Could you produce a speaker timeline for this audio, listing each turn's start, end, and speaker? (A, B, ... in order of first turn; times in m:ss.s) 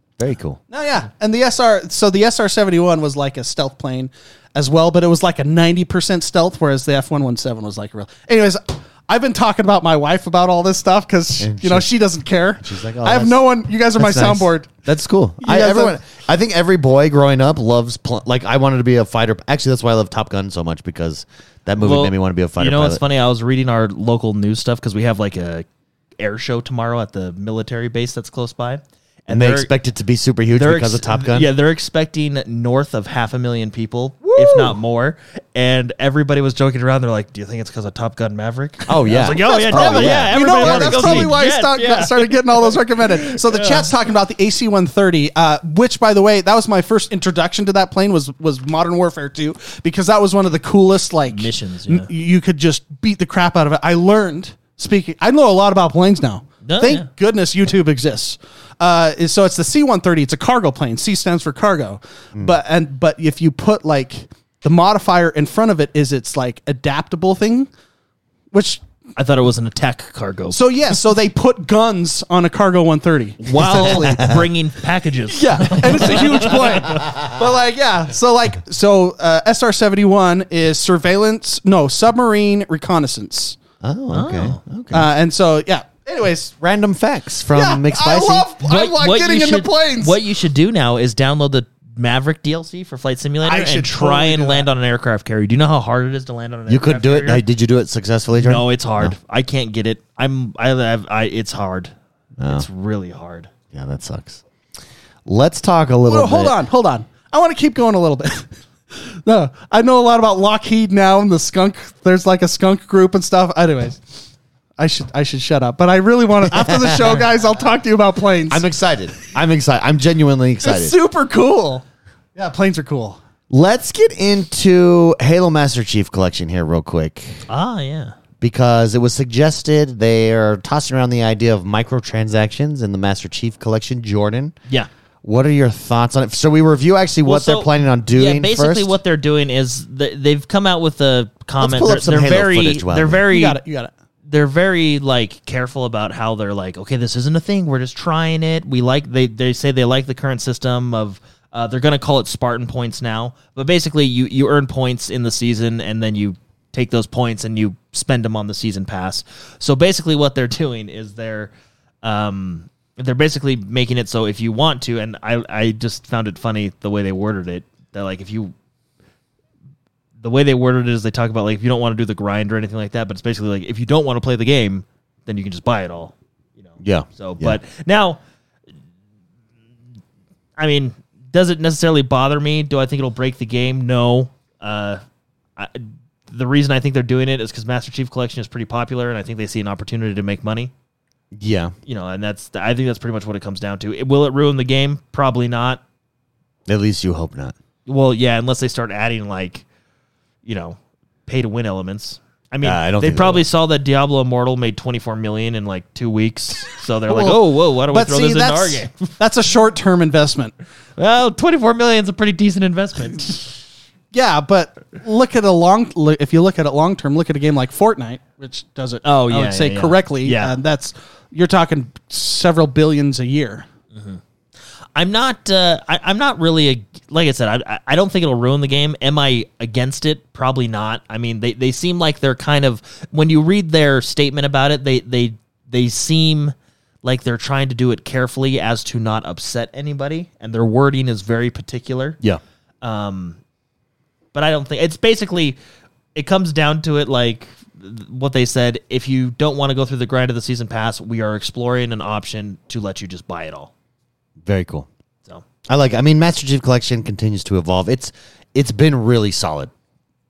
0:00.2-0:00.6 A
0:00.7-0:14.8 B
0:11.4-0:11.9 A
0:12.6-0:13.4 A
0:14.0-0:23.0 A
0:15.4-0:16.0 B
0:21.8-0:25.7 C
0:26.2-0:29.7 C
0:29.3-0:31.5 A
0:30.6-0:43.9 C
0:38.9-0:41.3 A
0:39.3-1:07.7 B
0:51.3-0:52.1 C
0:56.6-0:57.1 C
1:08.5-1:08.8 B
1:09.2-1:10.6 C
1:10.5-1:14.2 B
1:13.4-1:17.0 C
1:13.8-1:14.4 A
1:15.3-1:23.6 B
1:23.8-1:25.1 A
1:24.1-1:24.6 C
1:24.9-1:26.6 B
1:26.6-1:28.5 A
1:27.5-1:30.2 B
1:28.6-1:37.4 C
1:33.4-1:34.7 B
1:36.7-1:39.2 A
1:38.4-1:41.9 C
1:42.4-1:42.7 A
1:42.4-1:43.5 C
1:43.7-1:44.4 A
1:45.3-1:46.6 A
1:46.1-1:54.0 B
1:54.8-1:58.6 B
1:56.5-1:57.2 A
1:58.5-2:00.9 A
2:00.6-2:01.8 B
2:02.4-2:03.2 B
2:03.5-2:07.4 A
2:07.5-2:08.2 C
2:08.4-2:14.6 A
2:15.2-2:19.0 A
2:17.2-2:23.6 C
2:21.6-2:23.2 A
2:23.3-2:23.9 B
2:24.3-2:41.5 C
2:42.0-2:48.5 C
2:50.2-2:56.1 C
2:56.7-2:58.2 C
2:56.8-2:57.6 A
3:00.6-3:05.0 C
3:05.6-3:10.7 C
3:11.4-3:11.7 A
3:11.9-3:15.8 C
3:16.7-3:17.5 A
3:17.9-3:19.6 C
3:20.4-3:29.1 C
3:22.6-3:23.4 A
3:27.1-3:30.6 B
3:31.0-3:33.5 C
3:34.1-3:43.7 B
3:39.0-3:40.6 C
3:43.9-3:44.2 C
3:45.0-4:02.2 C
4:02.8-4:03.4 C
4:04.3-4:05.6 C
4:06.2-4:13.7 C
4:14.4-4:14.9 A
4:15.7-4:19.7 A